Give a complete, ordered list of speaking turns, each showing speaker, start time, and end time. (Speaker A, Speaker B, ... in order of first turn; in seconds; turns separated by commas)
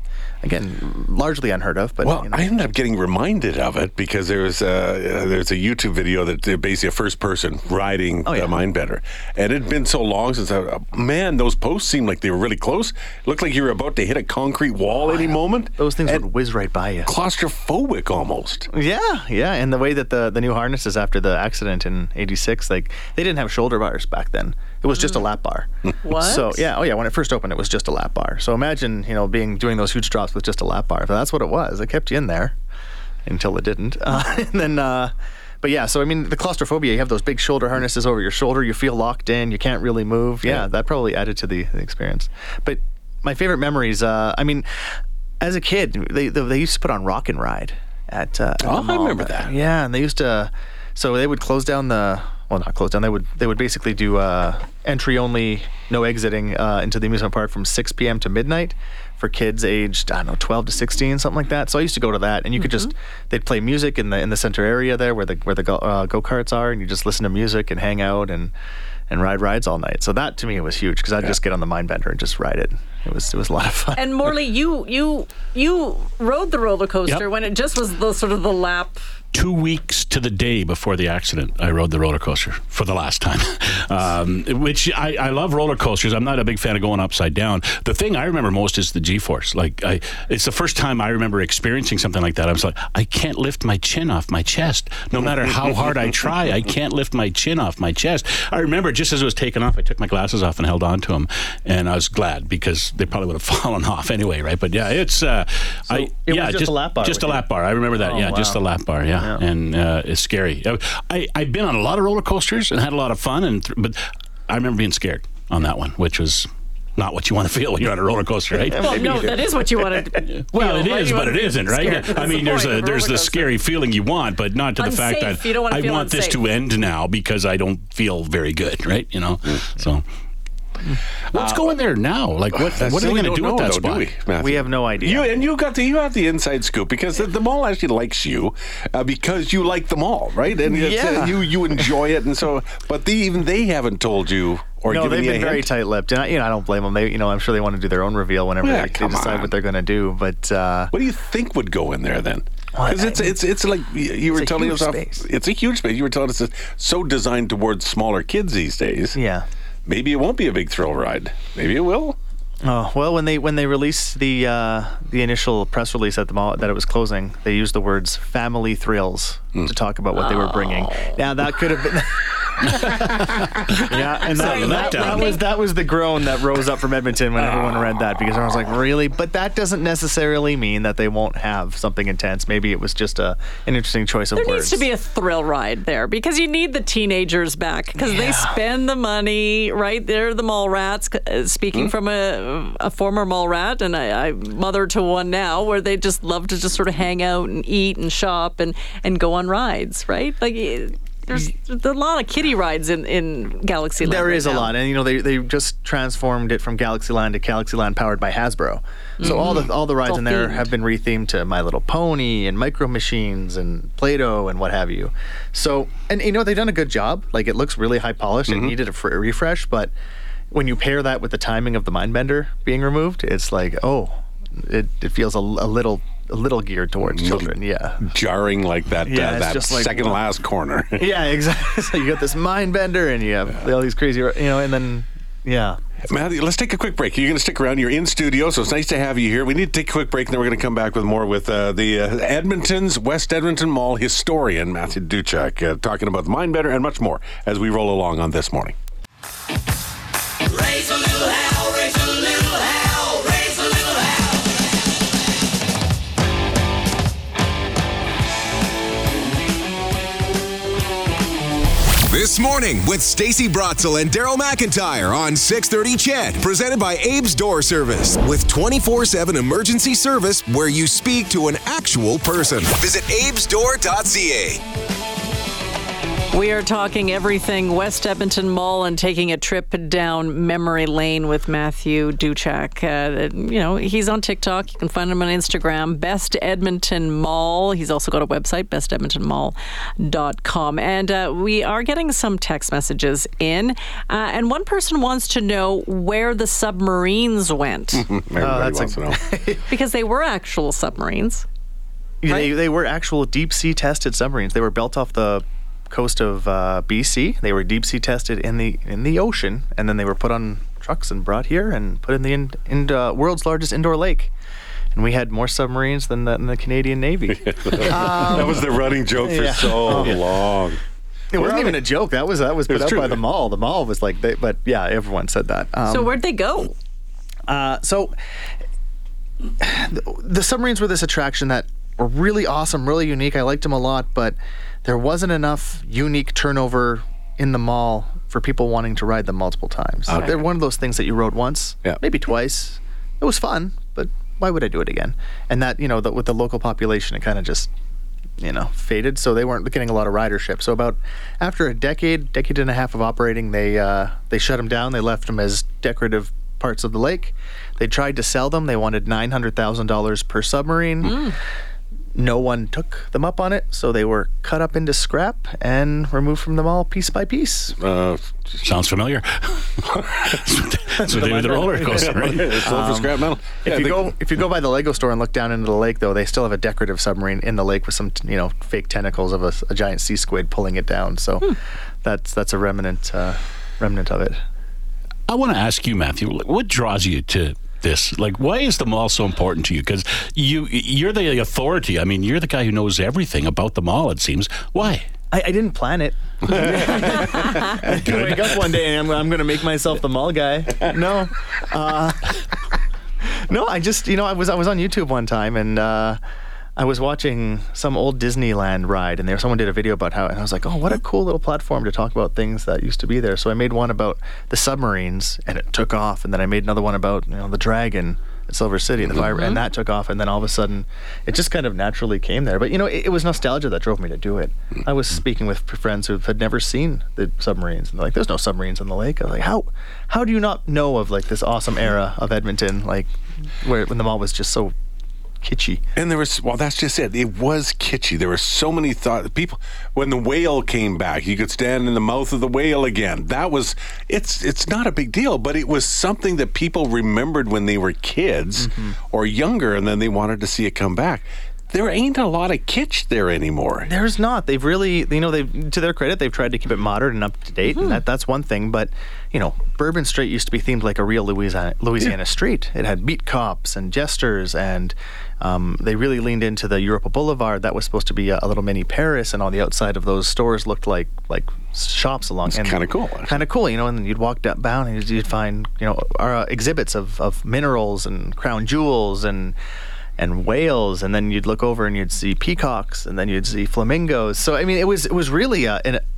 Speaker A: 0.4-2.5, Speaker B: 2.0-16.2, Speaker A: 8.2-8.6, Speaker A: 14.9-17.1, Speaker B: 17.1-18.7, Speaker A: 18.7-32.5, Speaker C: 26.0-26.6, Speaker A: 33.2-44.8, Speaker A: 45.4-68.5, Speaker B: 48.6-49.5, Speaker C: 62.6-62.9, Speaker A: 69.1-74.3, Speaker C: 73.9-79.0, Speaker D: 79.3-114.0, Speaker A: 105.9-108.6, Speaker A: 109.2-109.4, Speaker D: 114.5-119.1, Speaker A: 118.6-119.5, Speaker C: 118.8-123.6, Speaker D: 120.2-130.0, Speaker C: 124.8-126.4, Speaker D: 131.3-134.1, Speaker B: 131.3-131.6, Speaker B: 132.6-145.7, Speaker A: 134.4-135.3, Speaker A: 140.7-141.8, Speaker A: 144.9-150.9, Speaker B: 148.6-149.5, Speaker B: 150.9-159.2, Speaker A: 152.7-153.4, Speaker A: 154.3-155.3, Speaker A: 159.1-159.4, Speaker B: 159.8-162.2, Speaker A: 162.6-184.8, Speaker C: 170.1-171.2, Speaker D: 173.9-175.4, Speaker C: 174.3-175.4, Speaker C: 184.3-204.7, Speaker A: 188.0-188.6, Speaker A: 204.0-219.9, Speaker C: 209.2-210.7, Speaker B: 209.2-209.5, Speaker B: 218.5-218.7, Speaker A: 220.5-228.0, Speaker B: 227.1-231.0, Speaker A: 229.0-230.2, Speaker A: 230.9-235.8, Speaker B: 236.1-248.8, Speaker E: 262.1-274.6, Speaker C: 276.3-298.0, Speaker B: 298.0-299.2, Speaker A: 298.4-299.6, Speaker C: 299.7-301.4, Speaker A: 302.2-314.3, Speaker A: 314.9-320.2, Speaker B: 317.4-320.8, Speaker A: 321.3-326.1, Speaker B: 321.4-321.8, Speaker B: 322.7-323.2, Speaker C: 325.9-326.7, Speaker A: 327.5-328.1, Speaker A: 329.6-347.7, Speaker B: 340.1-340.4, Speaker A: 348.4-361.2, Speaker C: 361.0-361.3, Speaker A: 362.1-367.8, Speaker B: 367.8-368.6, Speaker D: 368.6-372.6, Speaker A: 371.0-384.4, Speaker B: 371.9-374.1, Speaker D: 385.3-395.1, Speaker A: 395.3-402.4, Speaker B: 396.5-398.6, Speaker A: 403.4-406.2, Speaker A: 406.8-433.1, Speaker C: 419.4-419.6, Speaker A: 433.6-434.7, Speaker A: 435.4-435.8, Speaker B: 435.9-453.9, Speaker A: 448.6-449.0, Speaker A: 453.8-479.6, Speaker C: 457.7-458.0, Speaker B: 472.5-473.4, Speaker A: 480.2-486.0